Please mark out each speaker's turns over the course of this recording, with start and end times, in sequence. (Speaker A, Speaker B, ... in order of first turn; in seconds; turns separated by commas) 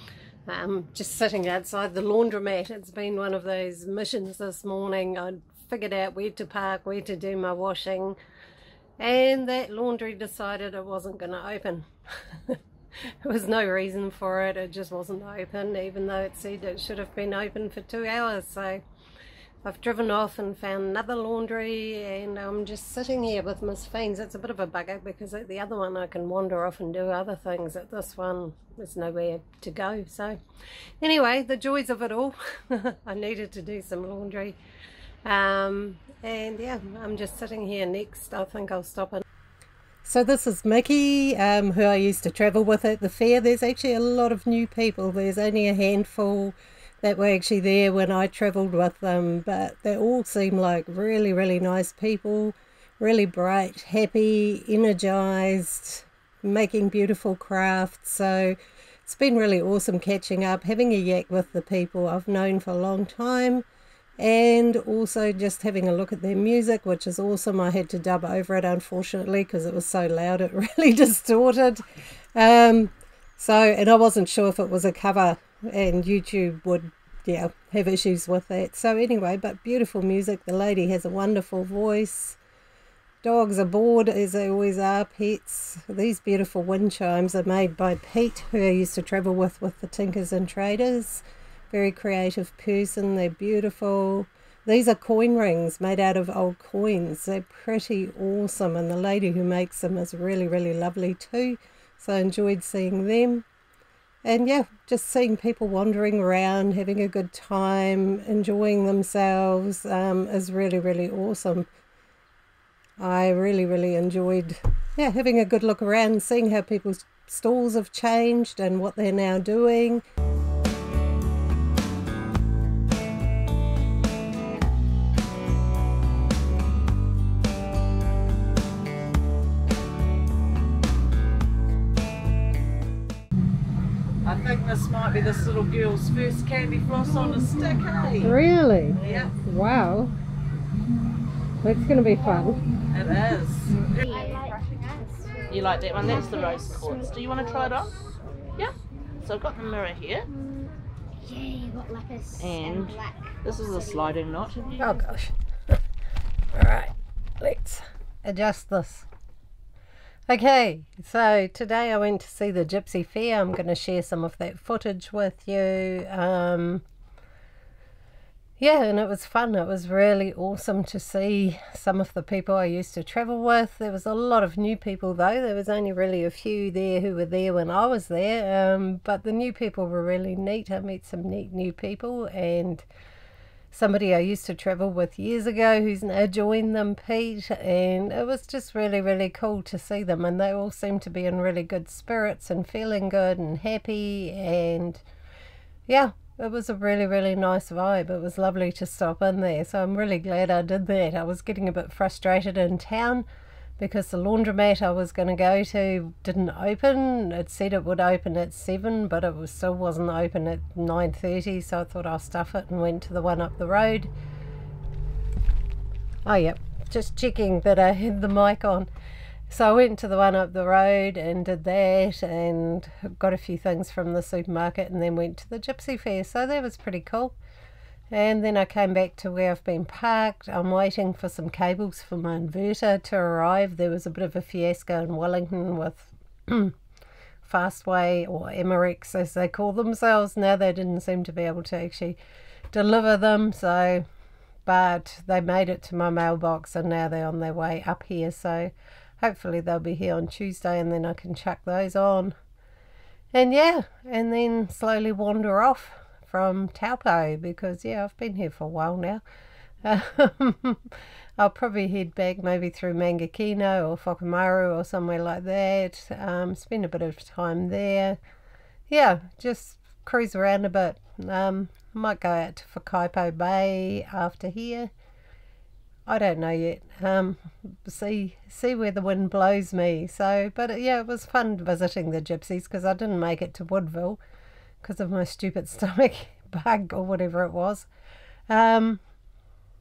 Speaker A: 0.5-8.2, Speaker A: 9.0-12.6, Speaker A: 13.2-18.8, Speaker A: 19.6-30.4, Speaker A: 31.0-34.6, Speaker A: 35.2-39.2, Speaker A: 40.0-63.6, Speaker A: 64.2-71.8, Speaker A: 72.3-82.4, Speaker A: 83.2-103.5, Speaker A: 104.2-111.7, Speaker A: 113.0-120.0, Speaker B: 134.2-138.3, Speaker A: 138.2-140.1, Speaker B: 139.0-139.3, Speaker A: 141.6-142.6, Speaker B: 142.9-144.1, Speaker C: 144.1-145.5, Speaker B: 145.5-147.9, Speaker B: 148.6-150.3, Speaker C: 151.2-152.4, Speaker B: 152.4-154.8, Speaker C: 153.1-153.3, Speaker A: 154.8-155.3, Speaker A: 156.5-159.1, Speaker A: 160.3-166.8, Speaker A: 168.6-182.9, Speaker A: 183.7-195.0, Speaker A: 195.9-203.2, Speaker A: 203.8-214.1, Speaker A: 216.2-218.9, Speaker A: 219.5-227.4, Speaker A: 228.1-236.8, Speaker A: 237.4-242.2, Speaker A: 242.7-244.1, Speaker A: 244.7-252.3, Speaker A: 253.3-259.2, Speaker A: 259.8-268.2, Speaker A: 268.9-274.9, Speaker A: 276.1-284.2, Speaker A: 284.8-287.9, Speaker A: 288.5-289.0